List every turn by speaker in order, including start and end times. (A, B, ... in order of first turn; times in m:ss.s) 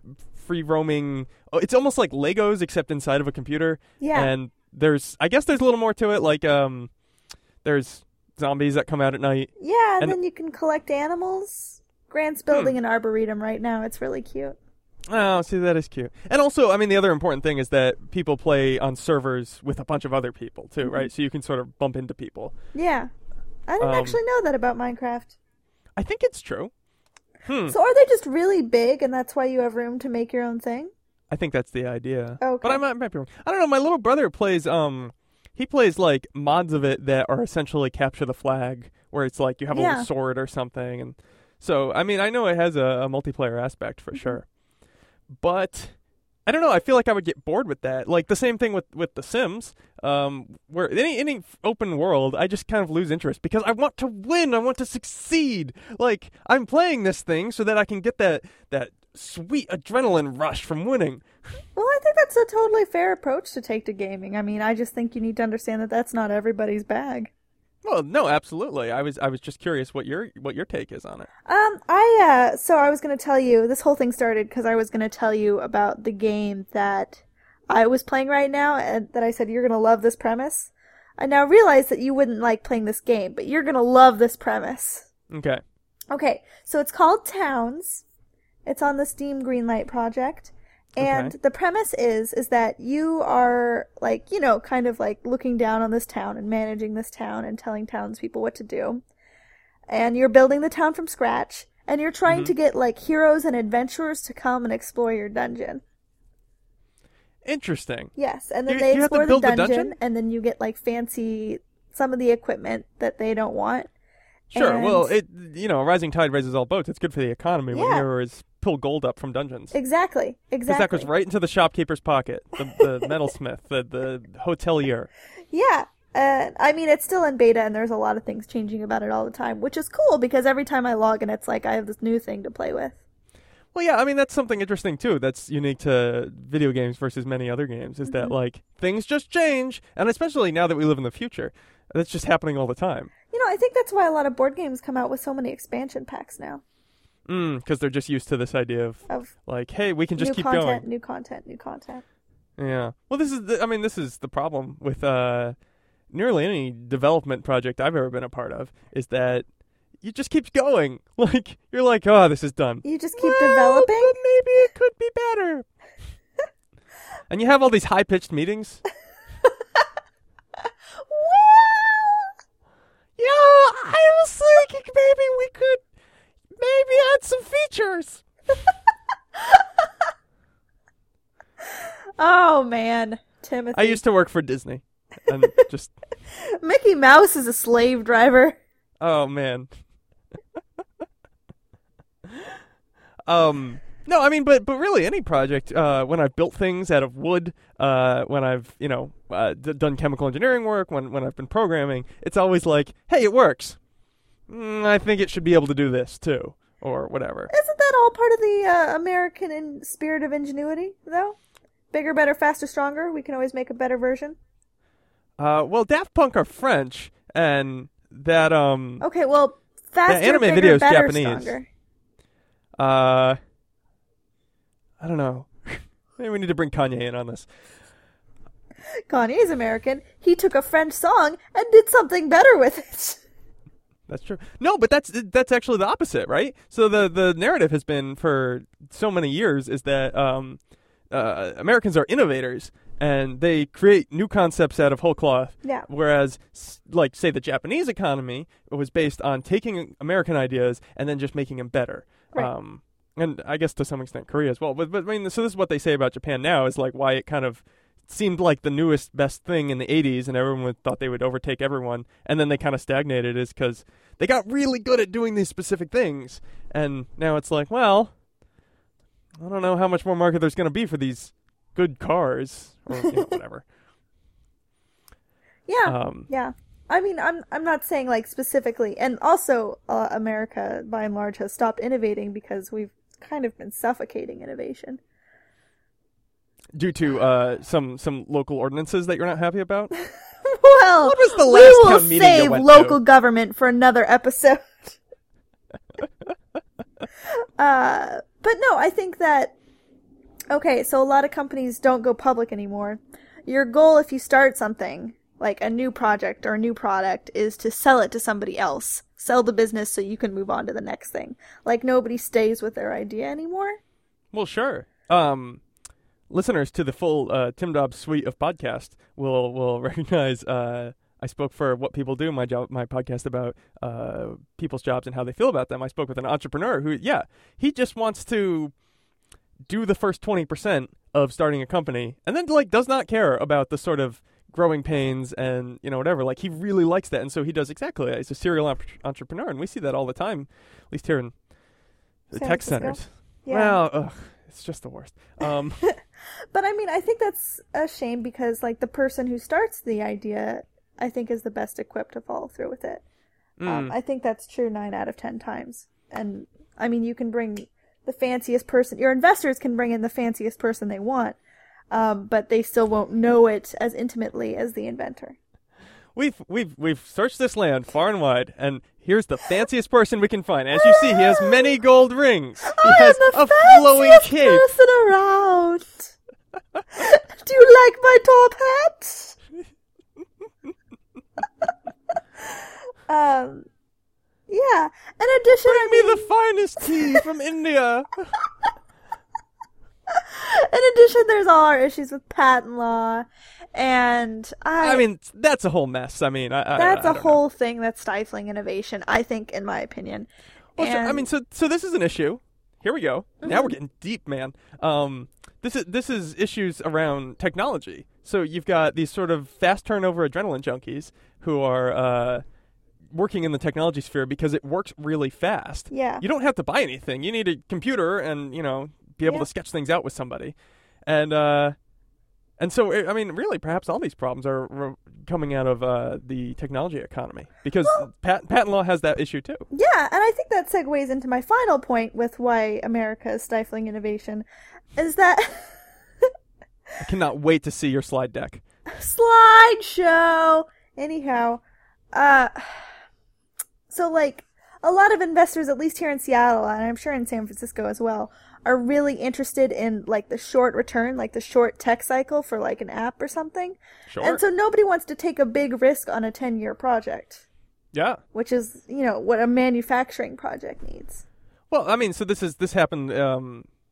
0:00.3-0:06.9 A
0:04.0-0:04.3 B
0:07.6-0:10.2 A
0:09.6-0:14.6 B
0:15.1-0:22.6 A
0:20.8-0:21.1 B
0:22.7-0:23.1 B
0:23.7-0:25.4 B
0:23.8-0:24.2 A
0:26.0-0:26.7 A
0:27.5-0:27.8 A
0:27.7-0:30.9 B
0:31.3-0:44.5 A
0:32.4-0:32.8 B
0:39.7-0:40.1 B
0:45.3-0:46.0 A
0:46.5-1:01.2 A
1:01.8-1:07.3 B
1:07.8-1:11.3 A
1:11.5-1:25.1 B
1:25.3-1:25.6 A
1:26.1-1:28.0 B
1:28.7-1:39.0 B
1:31.0-1:31.4 A
1:39.9-1:45.8 B
1:42.3-1:42.5 A
1:47.4-1:48.1 A
1:48.2-1:53.9 B
1:48.7-1:50.0 A
1:54.5-1:55.1 B
1:54.5-1:59.8 A
1:57.7-1:58.1 B
1:59.7-2:01.1 B
2:00.7-2:05.1 A
2:05.5-2:13.0 B
2:13.7-2:23.1 A
2:18.1-2:18.3 B
2:23.3-2:26.6 B
2:27.3-2:30.8 A
2:30.2-2:32.0 B
2:32.6-2:35.6 A
2:36.1-2:39.5 A
2:40.0-2:45.7 A
2:42.8-2:44.2 B
2:47.3-2:48.8 A
2:51.1-2:52.3 B
2:53.2-2:55.8 A
2:56.6-2:58.2 A
2:59.4-2:59.6 B
3:01.8-3:04.0 B
3:03.7-3:05.9 A
3:06.4-3:08.6 B
3:09.0-3:09.7 A
3:12.2-3:12.6 A
3:13.3-3:23.8 A
3:24.5-3:27.5 A
3:27.5-3:31.4 B
3:31.9-3:34.4 B
3:35.4-3:39.0 A
3:39.0-3:41.7 B
3:40.1-3:41.6 A
3:42.8-3:43.4 A
3:45.0-3:47.5 A
3:49.1-3:53.2 B
3:54.1-4:00.6 A
4:01.1-4:28.1 A
4:29.4-4:33.7 A
4:35.7-4:45.0 B
4:35.9-4:36.3 A
4:46.7-4:49.9 A
4:50.4-4:55.0 B
4:51.0-4:53.0 A
4:57.6-4:59.6 B
5:00.5-5:13.8 B
5:14.3-5:15.6 A
5:16.3-5:28.7 A
5:29.7-5:41.3 A
5:42.3-5:45.8 A
5:42.4-5:43.8 B
5:46.5-5:53.0 B
5:53.6-5:54.0 A
5:53.7-6:01.4 B
6:01.9-6:05.4 B
6:06.2-6:14.7 A
6:10.7-6:11.7 B
6:12.6-6:16.1 B
6:16.9-6:19.4 B
6:23.1-6:23.7 B
6:24.5-6:26.3 B
6:25.6-6:28.3 A
6:30.1-6:35.0 B
6:34.8-6:37.4 A
6:36.8-6:41.3 B
6:40.8-6:52.4 A
6:43.4-6:43.8 B
6:53.1-7:01.8 A
6:55.9-6:56.2 B
7:02.6-7:09.7 A
7:09.7-7:15.8 B
7:17.0-7:18.6 A
7:18.9-7:21.6 B
7:22.1-7:22.9 B
7:23.9-7:37.4 B
7:34.1-7:34.4 A
7:37.9-7:38.2 A
7:38.3-7:41.2 B
7:41.7-7:43.7 A